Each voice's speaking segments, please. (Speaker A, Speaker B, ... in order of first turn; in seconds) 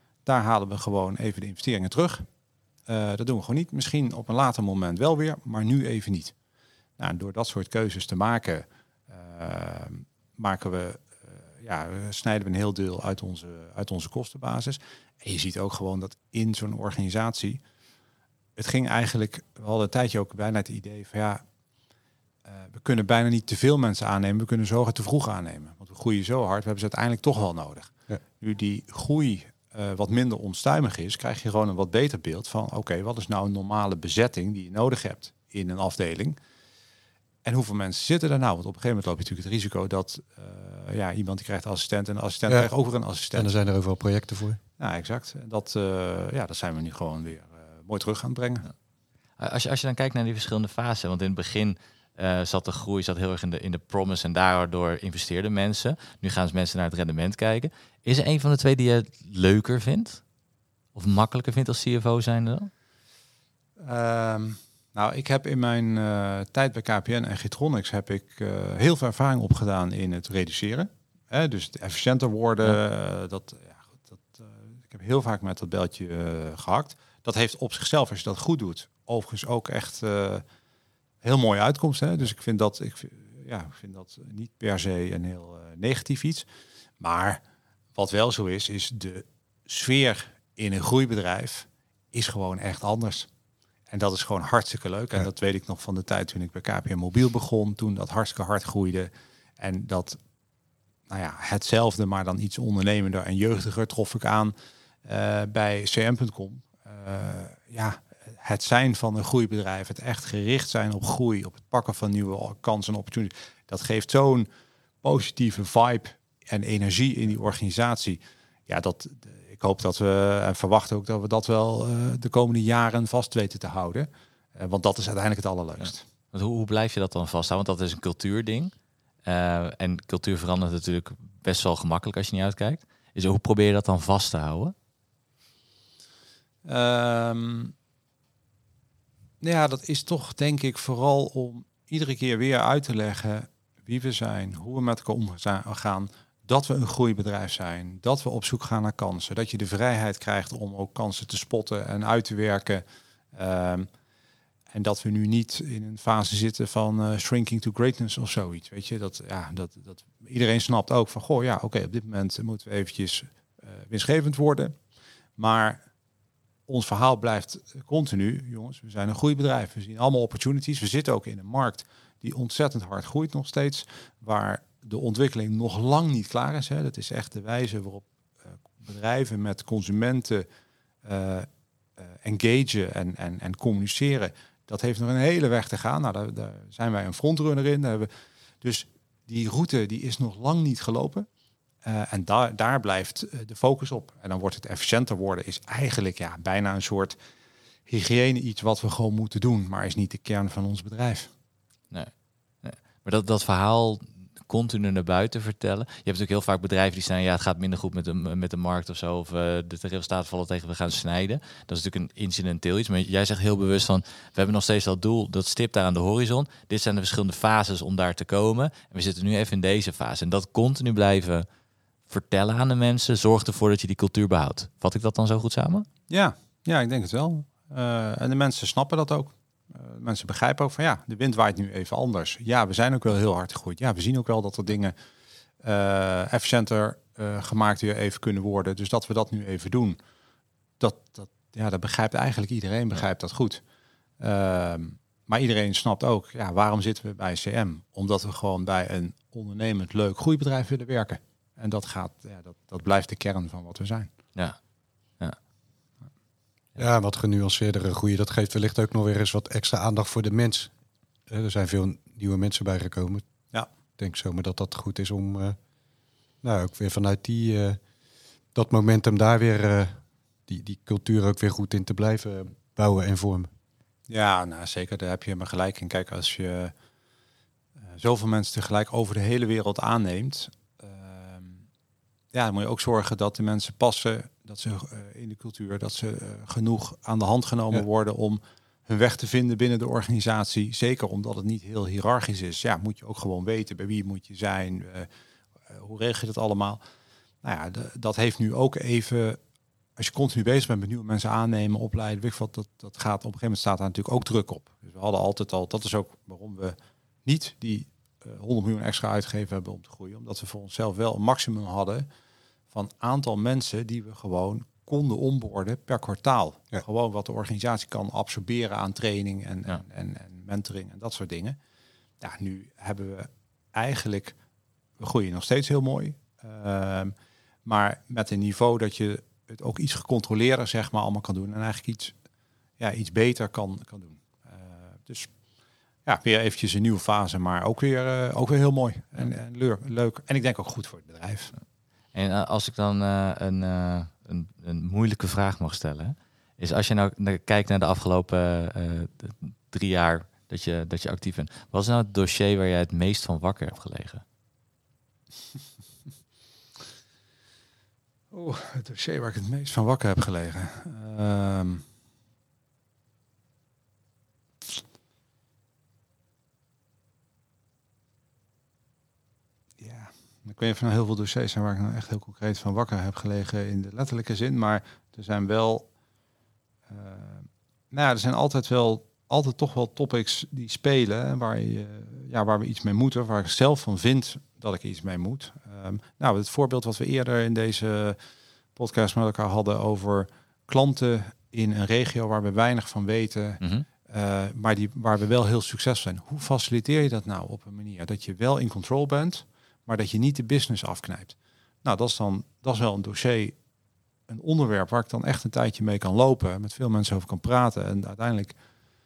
Speaker A: 0.2-2.2, 2.9-6.3, 7.0-17.6, 18.6-21.4, 22.4-36.4, 37.4-43.5, 44.8-48.7, 63.8-80.4, 81.2-86.5, 87.0-87.4, 88.0-93.3, 93.9-100.2, 101.1-114.5, 115.0-126.0, 136.6-137.7, 139.4-152.8, 153.3-153.9, 154.7-164.8, 165.4-165.8, 166.7-178.1, 178.8-180.4, 181.0-181.5, 182.0-188.1, 188.6-191.3, 191.8-197.2, 197.9-201.3, 226.1-234.9, 235.6-240.0, 240.8-243.6, 244.2-254.1, 274.1-276.7, 277.9-281.6, 282.3-295.1, 295.7-296.8, 297.4-299.4, 300.0-312.1, 312.7-321.6, 322.2-324.4, 325.0-327.1, 327.6-332.1, 332.8-335.3, 336.1-341.5, 358.3-361.8, 369.8-375.9, 376.9-388.2, 388.7-403.6, 404.3-408.6
Speaker B: 43.3-44.6, 256.8-260.7, 261.3-263.2, 264.0-265.6, 266.4-267.8, 268.5-273.5
Speaker C: 49.4-60.2, 60.9-62.7, 126.3-128.7, 129.2-134.7, 202.6-221.4, 222.1-225.9, 342.1-354.2, 393.6-393.9